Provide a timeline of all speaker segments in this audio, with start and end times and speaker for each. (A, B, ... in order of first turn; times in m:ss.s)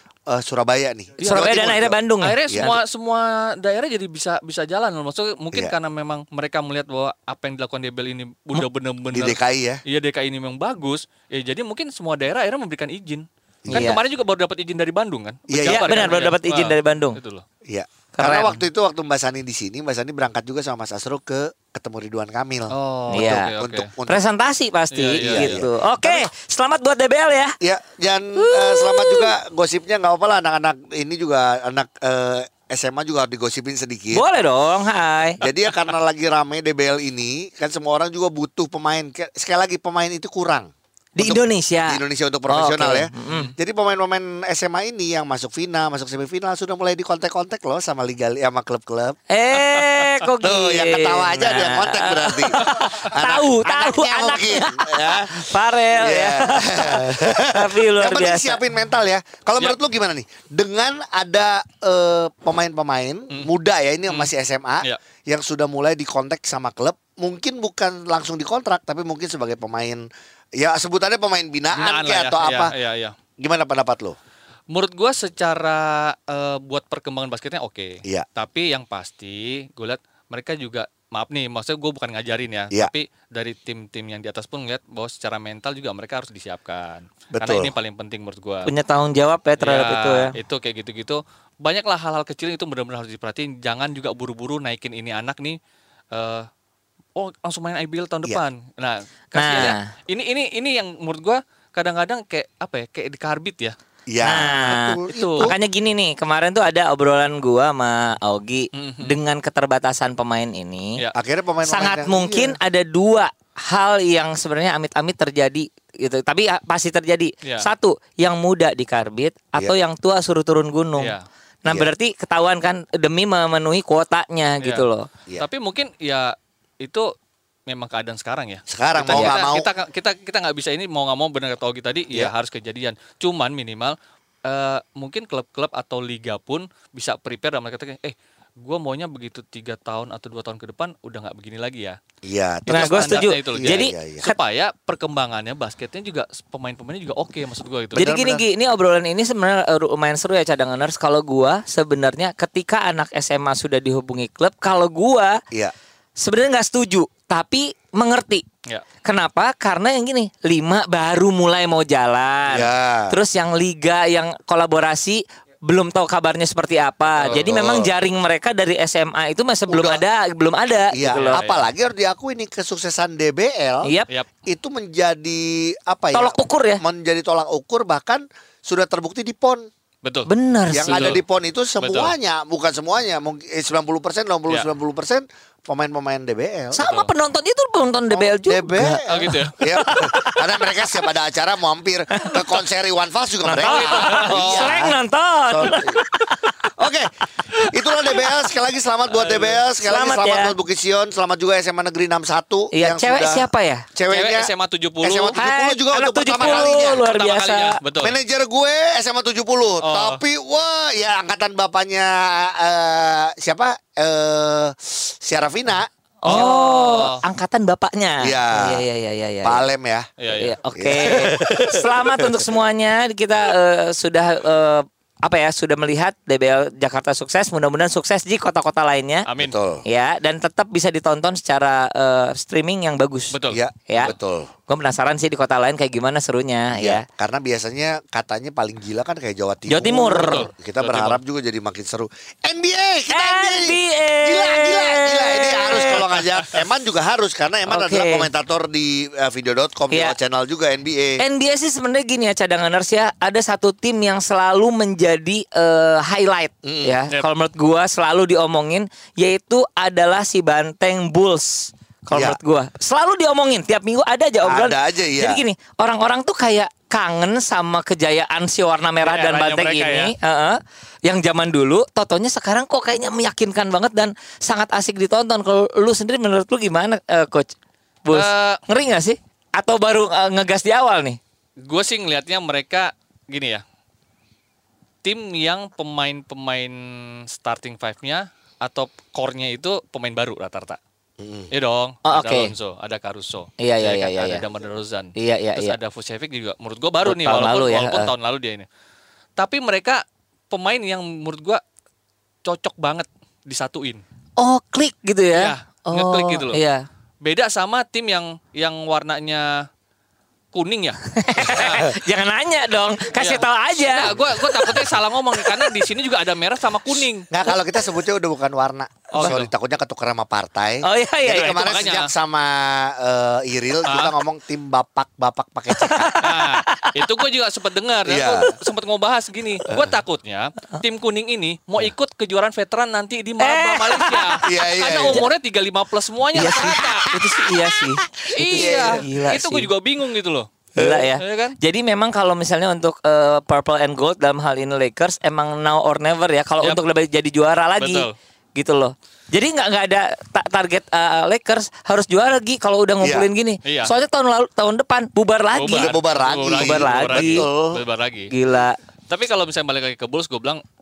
0:00.3-0:02.7 A
0:01.2-0:01.5 B
0:01.2-0:02.8 C
0:02.2-0:17.4 B
0:09.1-0:09.8 A
0:13.6-0:14.0 A
0:13.7-0:14.0 C
0:15.5-0:16.3 A
0:15.6-0:17.2 C
0:17.6-0:24.2 A
0:18.2-0:18.6 C
0:22.7-0:23.9 B
0:23.1-0:23.5 C
0:24.0-0:27.6 C
0:24.9-0:25.6 B
0:25.2-0:26.2 A
0:27.6-0:34.2 A
0:28.4-0:29.3 C
0:34.1-0:35.4 C
0:35.4-0:49.2 A
0:35.4-0:35.9 B
0:41.2-0:43.5 C
0:43.2-0:43.5 B
0:49.3-0:58.6 C
0:49.6-0:50.2 B
0:50.4-1:10.0 A
1:10.6-1:12.7 A
1:11.7-1:13.1 B
1:13.4-1:14.2 A
1:14.7-1:28.7 B
1:27.3-1:27.7 A
1:28.6-1:30.3 C
1:29.6-1:35.6 B
1:36.1-1:36.5 B
1:37.2-1:43.8 B
1:39.3-1:39.8 C
1:44.1-1:45.5 A
1:44.2-1:51.0 C
1:45.0-1:45.5 B
1:48.7-1:49.2 B
1:51.1-1:52.6 A
1:51.6-2:01.1 C
1:57.4-1:57.7 B
2:01.0-2:01.2 B
2:01.6-2:05.1 C
2:05.4-2:07.1 B
2:07.7-2:22.0 B
2:08.7-2:09.7 A
2:09.1-2:09.4 C
2:22.2-2:24.3 A
2:22.7-2:24.3 C
2:22.7-2:28.0 B
2:27.9-2:28.4 A
2:27.9-2:35.4 C
2:36.2-2:38.4 C
2:39.0-2:51.4 C
2:42.5-2:43.2 A
2:47.2-2:47.7 B
2:47.4-2:47.9 A
2:49.7-2:50.0 A
2:50.9-2:53.9 A
2:51.1-2:51.6 B
2:53.8-2:54.1 C
2:54.4-2:59.7 A
2:56.1-2:56.8 C
3:00.0-3:00.3 B
3:00.2-3:01.2 C
3:00.7-3:06.8 A
3:00.8-3:01.2 B
3:01.8-3:02.1 B
3:06.7-3:10.5 C
3:06.8-3:07.1 B
3:08.1-3:16.0 A
3:09.1-3:09.5 B
3:12.2-3:12.5 C
3:13.4-3:16.7 C
3:13.6-3:14.7 B
3:16.8-3:17.1 A
3:17.6-3:24.5 A
3:19.8-3:20.5 C
3:22.7-3:23.9 C
3:24.1-3:25.4 B
3:25.0-3:27.0 A
3:25.3-3:27.8 C
3:26.4-3:28.2 B
3:28.0-3:36.4 A
3:29.8-3:30.2 B
3:36.2-3:39.6 C
3:36.2-3:37.2 B
3:38.2-3:38.8 A
3:39.4-3:40.1 A
3:40.2-3:40.6 B
3:40.3-3:49.3 C
3:40.7-3:42.4 A
3:49.3-3:49.5 B
3:49.4-3:49.8 A
3:49.8-3:53.4 C
3:53.3-3:53.6 B
3:53.5-3:54.5 A
3:53.9-3:54.1 C
3:54.7-3:57.0 C
3:56.7-4:11.2 A
3:59.7-4:00.5 C
4:00.2-4:01.2 B
4:03.1-4:06.0 C
4:07.7-4:08.3 C
4:11.2-4:37.5 C
4:16.6-4:17.0 A
4:22.1-4:22.4 A
4:24.4-4:25.4 A
4:29.0-4:30.1 B
4:38.0-4:41.2 C
4:38.1-4:38.6 B
4:41.6-4:43.6 B
4:45.0-4:50.8 B
4:51.2-4:51.5 A
4:51.5-4:58.7 B
4:52.0-4:52.5 C
4:53.6-4:54.4 C
4:55.2-4:55.8 C
4:57.0-4:58.1 C
4:59.4-5:01.6 B
5:02.4-5:04.0 B
5:04.4-5:06.8 C
5:05.3-5:06.6 B
5:07.2-5:09.6 B
5:10.5-5:11.9 B
5:11.1-5:15.9 C
5:11.4-5:11.9 A
5:13.2-5:17.3 B
5:17.3-5:26.2 A
5:19.1-5:19.5 B
5:20.8-5:21.7 C
5:21.3-5:22.1 B
5:23.9-5:24.1 B
5:25.7-5:27.1 C
5:26.2-5:37.1 B
5:28.0-5:28.5 A
5:33.4-5:34.4 C
5:34.4-5:35.2 A
5:36.3-5:39.7 C
5:38.3-5:40.6 B
5:38.4-5:39.0 A
5:40.8-5:56.0 C
5:40.8-5:41.0 A
5:41.1-5:41.6 B
5:47.8-5:48.1 B
5:53.0-5:53.3 A
5:53.6-5:53.9 B
5:55.6-5:58.3 B
5:55.7-5:57.8 A
5:56.5-5:57.5 C
5:58.3-5:58.8 C
5:59.1-6:00.6 B